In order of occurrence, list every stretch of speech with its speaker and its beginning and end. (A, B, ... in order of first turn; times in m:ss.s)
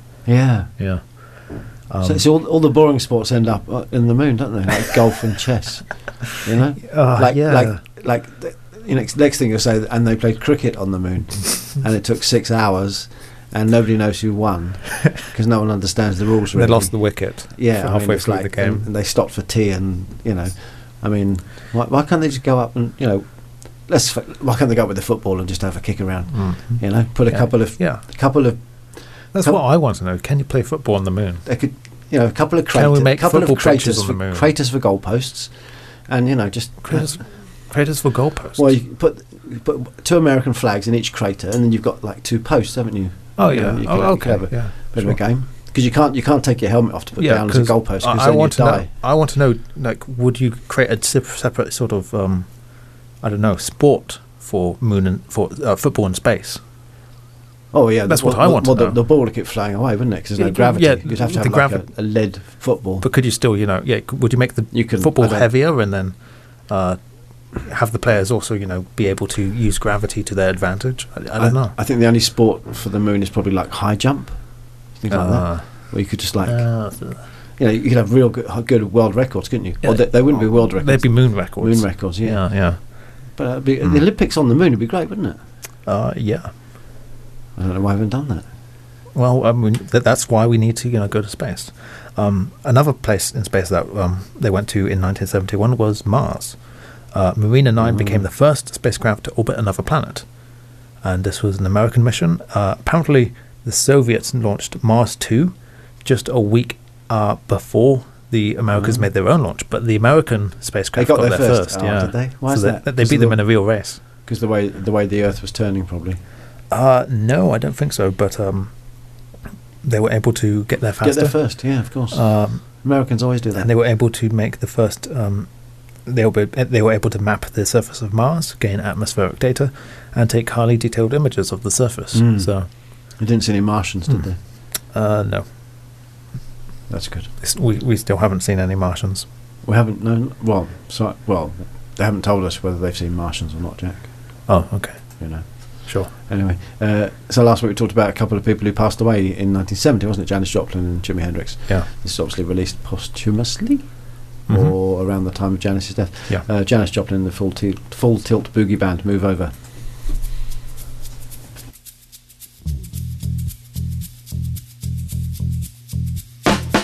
0:00.3-0:00.7 A
0:00.8-0:02.3 B
0:02.0-0:29.6 A
0:06.8-0:07.8 B
0:16.5-0:18.9 B
0:26.3-0:28.0 B
0:29.3-0:31.5 B
0:31.5-0:35.5 A
0:32.7-0:34.5 B
0:36.1-0:37.2 A
0:36.8-0:38.7 B
0:38.6-0:48.9 A
0:43.4-0:45.2 B
0:47.2-0:52.5 B
0:53.2-0:56.6 B
0:57.7-1:03.1 A
0:58.1-0:59.0 B
1:00.4-1:01.9 B
1:03.0-1:06.2 B
1:04.7-1:05.5 A
1:06.7-1:07.0 B
1:07.6-1:11.8 B
1:11.4-1:16.7 A
1:15.1-1:17.2 B
1:17.6-1:22.7 A
1:19.8-1:22.8 B
1:23.4-1:25.4 A
1:25.8-1:26.5 B
1:27.6-1:28.5 A
1:29.1-1:36.6 B
1:37.1-1:40.3 B
1:37.8-1:38.2 A
1:41.0-1:54.0 B
1:48.7-1:49.1 A
1:51.0-1:53.6 A
1:54.2-1:56.2 A
1:56.7-1:58.7 B
1:59.8-2:02.7 B
2:01.0-2:03.7 A
2:03.6-2:05.5 B
2:06.0-2:12.7 B
2:12.1-2:14.4 A
2:14.9-2:15.5 B
2:16.9-2:17.3 A
2:17.4-2:19.3 B
2:19.6-2:24.3 A
2:24.5-2:26.1 B
2:25.2-2:39.5 A
2:34.5-2:34.8 B